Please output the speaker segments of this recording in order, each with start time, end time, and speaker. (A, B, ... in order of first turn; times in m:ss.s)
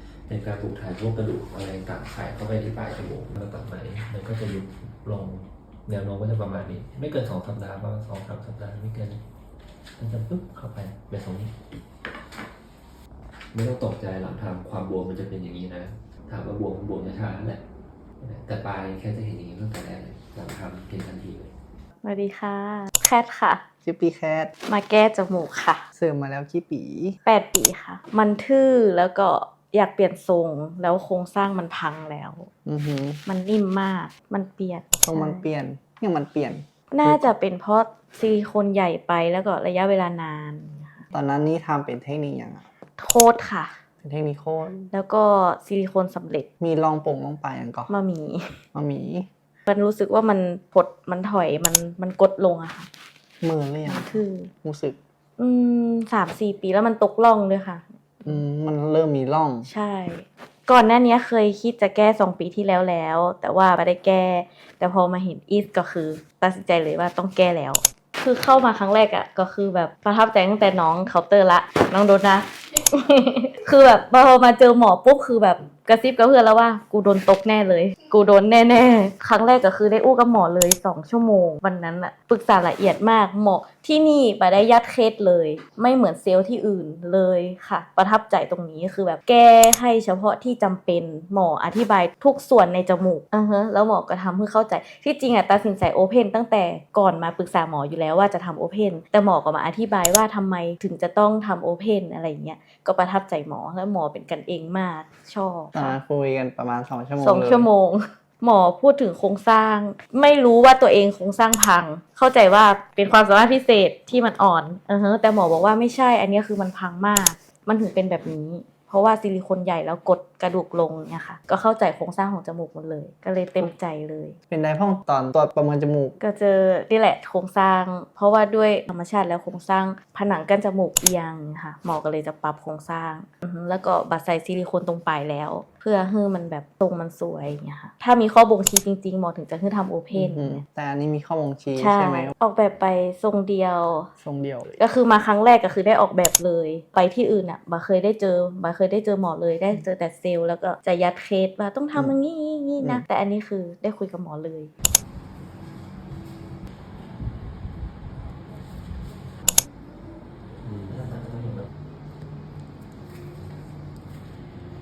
0:00.3-0:09.2 A
0:10.0-0:11.6 A
0:13.5-0:17.6 A
0:18.2-0:21.5 A
0:22.0-0:23.6 B
0:23.8-0:24.5 C
0:24.6-0:25.8 B
0:25.9-0:27.2 C
0:27.2-0:32.5 B
0:32.6-0:33.2 C
0:33.3-0:35.4 B
0:35.0-0:37.3 C
0:36.9-0:41.1 B
0:41.1-0:42.6 C
0:43.0-0:43.8 B
0:44.0-0:44.9 C
0:44.9-0:46.5 B
0:46.6-0:47.9 C
0:47.9-0:48.6 B
0:48.7-0:49.3 C
0:49.7-0:52.9 B
0:53.4-0:55.0 C
0:53.8-0:54.5 B
0:55.4-0:58.4 B
0:58.2-0:59.7 C
0:59.6-1:46.0 B
1:45.7-1:47.7 C
1:47.2-2:04.4 B
2:04.5-2:06.2 C
2:06.2-2:20.6 B
2:20.1-2:22.3 C
2:21.8-2:24.1 B
2:24.2-2:24.7 C
2:24.8-2:34.7 B
2:40.6-2:41.7 A